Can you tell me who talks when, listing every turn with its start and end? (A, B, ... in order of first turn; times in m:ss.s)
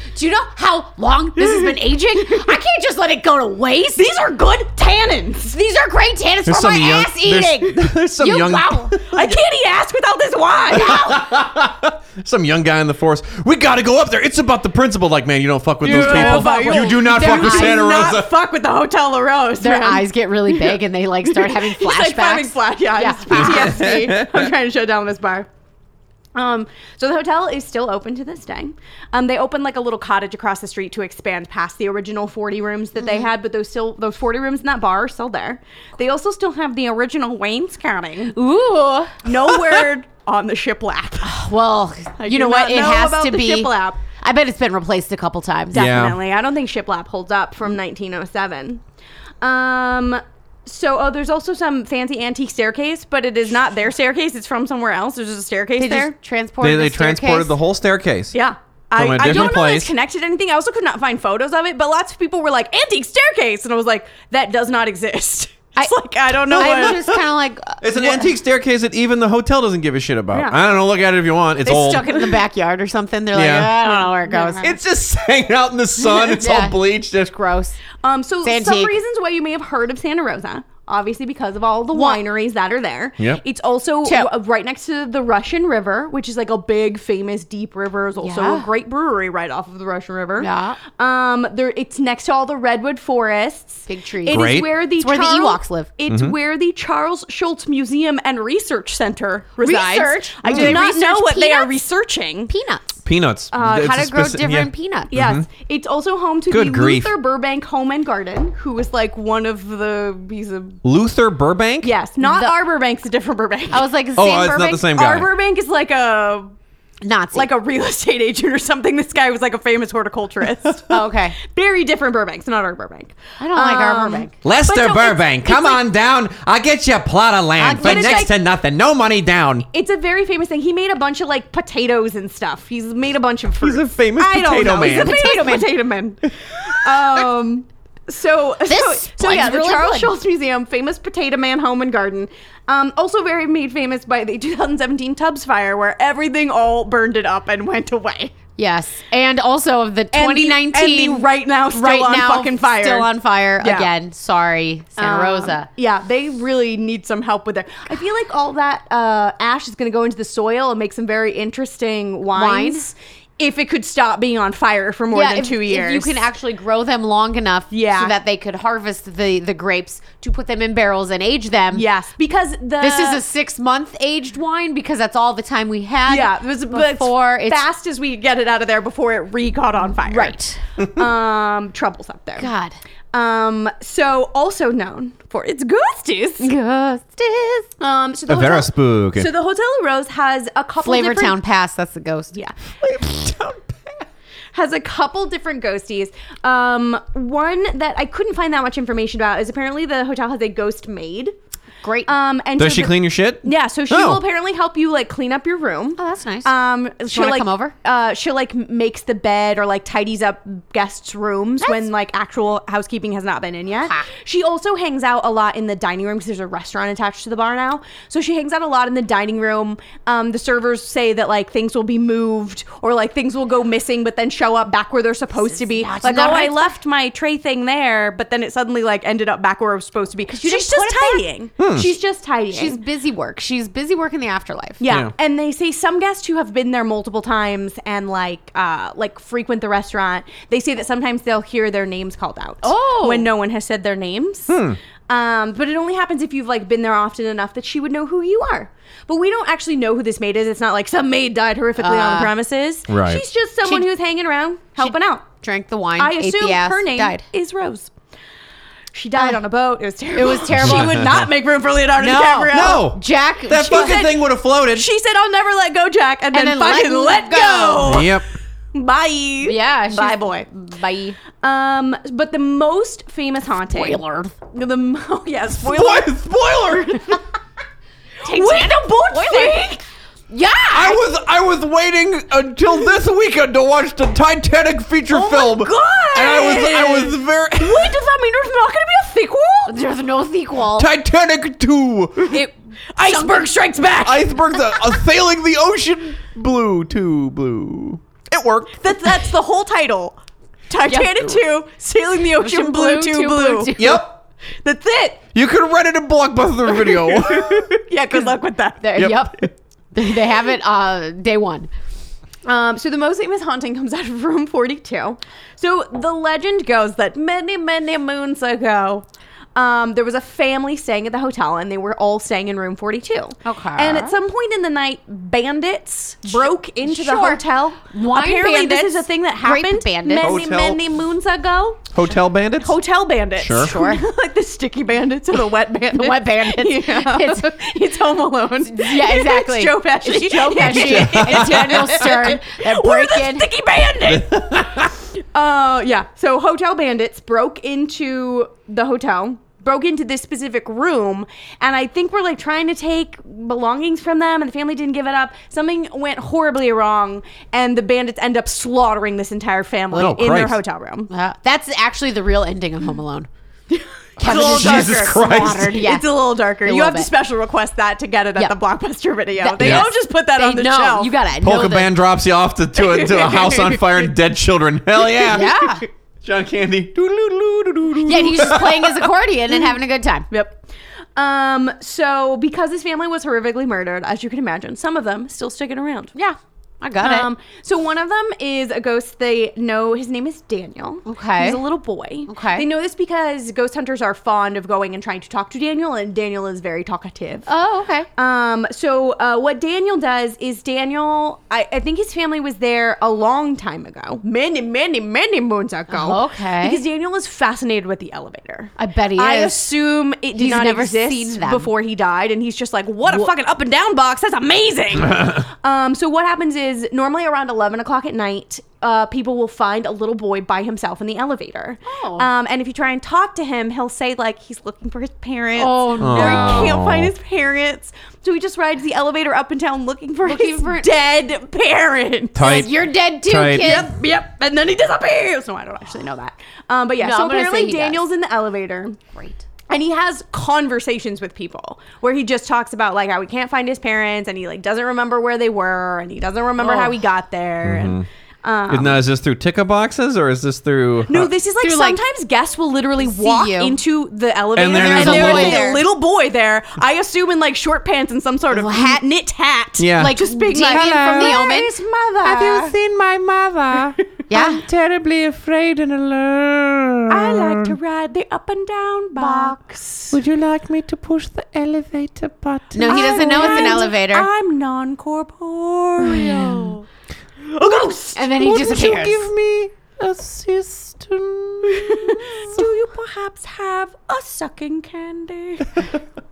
0:00.1-0:04.1 A
0:01.4-0:02.5 B
0:04.0-0:05.6 B
0:05.5-0:09.0 A
0:06.4-0:09.4 C
0:09.1-0:11.1 B
0:10.7-0:11.2 A
0:10.7-0:18.3 C
0:15.8-0:25.5 B
0:15.8-0:17.9 A
0:19.6-0:23.8 A
0:23.3-0:24.5 C
0:26.3-0:38.4 B
0:33.0-0:33.2 A
0:38.3-0:39.2 A
0:39.2-0:41.3 B
0:41.2-0:45.9 A
0:42.2-0:44.0 B
0:45.7-0:48.8 B
0:45.7-0:46.2 C
0:49.4-0:56.1 B
0:55.8-0:57.6 A
0:56.6-0:58.3 C
0:58.3-1:07.0 B
0:58.9-0:59.9 C
1:06.4-1:07.2 C
1:06.5-1:08.3 A
1:07.8-1:12.1 C
1:10.3-1:10.6 B
1:11.6-1:14.7 A
1:13.3-1:13.7 C
1:13.8-1:14.7 B
1:14.6-1:17.4 C
1:16.2-1:17.8 A
1:18.0-1:42.5 B
1:18.4-1:18.9 A
1:21.9-1:22.2 A
1:24.0-1:24.3 A
1:28.2-1:28.6 A
1:30.4-1:30.8 A
1:33.9-1:35.9 A
1:34.3-1:34.7 C
1:36.1-1:36.3 C
1:39.6-1:41.8 A
1:40.5-1:40.8 C
1:42.5-1:43.0 A
1:43.0-1:45.4 C
1:43.5-1:43.9 B
1:43.5-1:45.1 A
1:45.1-1:50.8 B
1:46.5-1:47.1 C
1:50.8-1:51.9 C
1:51.8-1:56.5 B
1:52.2-1:52.5 A
1:53.7-1:54.7 A
1:54.2-1:55.3 C
1:57.0-1:57.5 A
1:57.3-2:05.8 B
2:00.9-2:01.4 A
2:03.4-2:04.3 A
2:04.4-2:09.6 C
2:07.6-2:08.3 A
2:07.7-2:08.3 B
2:09.7-2:28.3 B
2:13.6-2:15.3 C
2:14.8-2:15.7 A
2:18.6-2:20.1 A
2:28.6-2:35.7 A
2:30.1-2:33.9 B
2:35.0-2:46.3 B
2:42.3-2:42.9 A
2:45.1-2:51.8 A
2:47.7-2:48.1 B
2:51.7-2:53.2 B
2:52.8-2:57.6 A
2:56.1-3:02.5 B
3:00.0-3:00.6 A
3:02.4-3:02.8 A
3:03.1-3:06.5 B
3:06.4-3:07.7 A
3:07.8-3:11.4 B
3:08.3-3:09.3 C
3:10.8-3:12.4 A
3:12.8-3:14.0 C
3:14.5-3:21.3 B
3:21.8-3:22.1 A
3:22.1-3:52.8 B
3:22.6-3:24.2 C
3:26.0-3:26.5 A
3:27.0-3:27.7 A
3:45.5-3:46.7 A
3:50.4-3:51.2 A
3:51.6-3:51.9 C
3:52.5-3:54.8 A
3:54.8-4:15.3 B
4:02.6-4:03.3 A
4:04.5-4:04.8 C
4:11.8-4:12.3 A
4:12.9-4:13.2 C
4:14.8-4:17.2 A
4:16.0-4:17.9 B
4:18.9-4:22.9 B
4:20.1-4:21.1 A
4:20.6-4:21.2 C
4:22.0-4:24.0 A
4:22.5-4:24.9 C
4:23.5-4:28.1 B
4:26.3-4:28.1 A
4:27.8-4:28.2 C
4:28.7-4:30.5 B
4:29.4-4:31.2 A
4:31.4-4:34.0 B
4:33.7-4:34.3 A
4:34.5-4:36.1 B
4:35.6-4:37.2 C
4:38.2-4:39.7 A
4:38.2-4:39.8 B
4:40.3-4:41.0 A
4:40.7-4:48.0 C
4:45.1-4:49.7 B
4:49.7-4:50.9 A
4:50.8-4:52.4 C
4:52.3-4:54.9 B
4:53.0-4:53.5 A
4:54.0-4:59.1 C
4:58.8-5:00.2 B
5:00.7-5:03.8 B
5:00.8-5:01.4 A
5:02.4-5:04.0 A
5:03.8-5:04.2 C
5:04.6-5:05.2 B
5:05.3-5:07.7 C
5:06.7-5:09.1 B
5:08.8-5:11.7 A
5:09.0-5:09.4 C
5:12.4-5:32.0 B
5:23.4-5:24.1 A
5:26.8-5:30.3 A
5:30.2-5:30.8 C
5:31.9-5:32.7 C
5:32.6-5:44.6 B
5:33.4-5:33.8 C
5:33.5-5:34.0 A
5:35.9-5:37.6 A
5:38.6-5:43.4 A
5:40.6-5:41.8 C
5:44.0-5:44.9 C
5:45.3-6:01.1 B
5:59.9-6:00.6 C
6:01.1-6:03.3 A
6:03.7-6:11.1 B
6:04.2-6:05.8 C
6:04.2-6:07.1 A
6:09.4-6:11.9 A
6:09.6-6:09.9 C
6:11.4-6:19.1 C
6:12.8-6:14.1 B
6:15.3-6:15.8 A
6:18.0-6:20.3 A
6:20.3-6:20.6 B
6:21.2-6:26.1 B
6:26.1-6:27.3 A
6:27.0-6:37.5 B
6:31.0-6:31.6 A
6:32.3-6:32.6 A
6:37.5-6:38.1 A
6:38.2-7:12.5 B
6:45.9-6:46.8 A
6:48.8-6:49.7 A
6:50.3-6:51.7 A
7:01.8-7:02.3 A
7:05.6-7:06.8 A
7:06.0-7:07.1 C
7:10.2-7:10.9 A
7:12.3-7:13.9 C
7:12.4-7:13.9 A
7:13.6-7:19.1 B
7:17.0-7:18.0 A
7:19.1-7:19.4 A
7:19.7-7:29.0 B
7:26.6-7:27.0 A
7:27.6-7:28.0 C
7:28.7-7:31.3 C
7:31.1-7:42.7 B
7:31.6-7:32.0 A
7:33.0-7:33.8 A
7:34.6-7:35.7 C
7:34.7-7:35.8 A
7:38.5-7:39.0 A
7:39.8-7:41.4 C
7:40.0-7:41.8 A
7:42.2-7:47.7 C
7:44.3-7:44.6 A
7:47.1-7:50.2 B
7:49.2-7:49.5 A
7:50.1-7:53.8 C
7:52.7-7:54.3 A
7:52.8-7:56.8 B
7:56.0-7:56.7 A
7:57.4-7:58.4 B
7:58.1-7:59.3 A
7:58.4-8:02.7 C
8:01.7-8:06.0 B